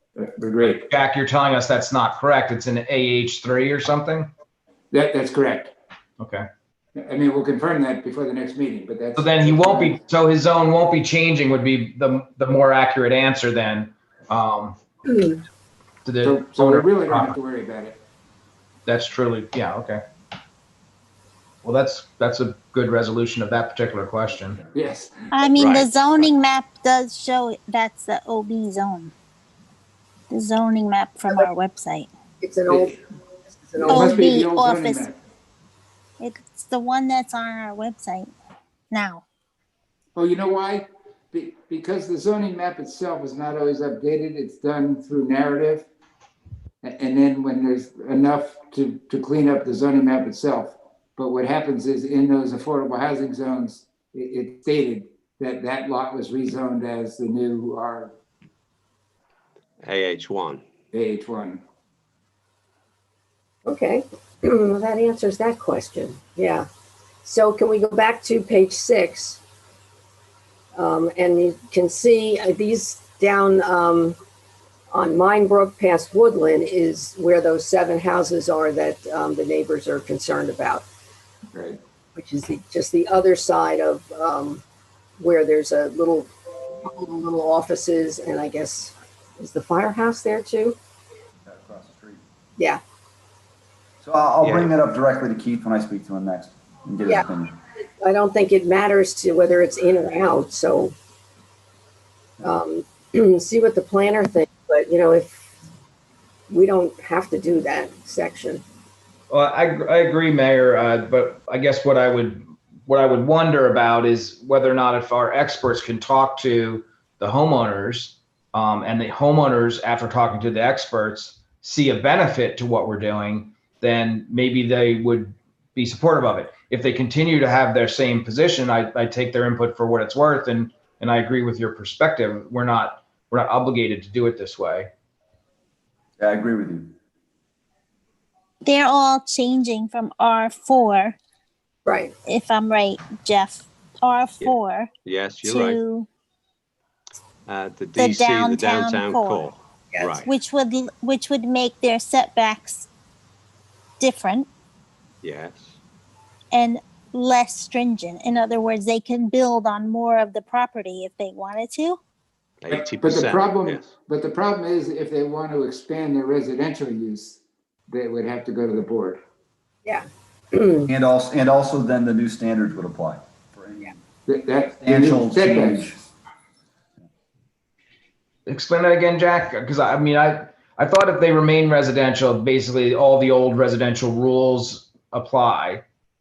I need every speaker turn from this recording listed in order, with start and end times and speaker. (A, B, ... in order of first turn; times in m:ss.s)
0:00.6-0:04.3 A
0:06.2-0:06.4 A
0:09.2-0:14.8 A
0:09.6-0:09.8 B
0:15.1-0:15.4 C
0:16.0-0:17.4 A
0:16.2-0:18.0 B
0:18.9-0:20.0 A
0:21.6-0:24.6 A
0:24.7-0:25.1 B
0:25.3-0:29.1 D
0:25.6-0:25.9 E
0:30.3-0:32.1 D
0:32.4-0:34.3 C
0:33.9-0:35.1 D
0:33.9-0:35.2 B
0:36.2-0:38.3 D
0:38.9-0:39.2 D
0:40.1-0:45.9 B
0:46.8-0:58.1 B
0:59.8-1:00.6 E
1:00.9-1:01.6 B
1:03.6-1:06.7 C
1:07.2-1:09.4 C
1:10.7-1:14.2 C
1:14.9-1:20.8 C
1:22.1-1:24.6 C
1:25.2-1:26.3 C
1:26.8-1:30.8 C
1:31.4-1:32.2 F
1:34.0-1:37.6 F
1:34.4-1:34.7 E
1:38.0-1:40.9 C
1:42.4-1:45.5 C
1:46.5-1:48.6 C
1:49.3-2:14.9 A
2:16.2-2:16.9 F
2:18.6-2:21.2 D
2:21.8-2:22.1 C
2:22.2-2:24.9 D
2:24.4-2:25.8 E
2:25.4-2:26.1 D
2:27.5-2:30.3 E
2:28.0-2:29.5 D
2:29.9-2:30.2 C
2:30.2-2:32.9 D
2:34.0-2:34.5 D
2:35.2-2:35.8 E
2:36.5-2:42.0 D
2:42.6-2:43.9 E
2:43.0-2:49.2 B
2:49.8-2:50.9 C
2:50.9-2:54.0 F
2:54.8-2:56.0 F
2:55.1-2:55.9 B
2:58.5-3:05.8 A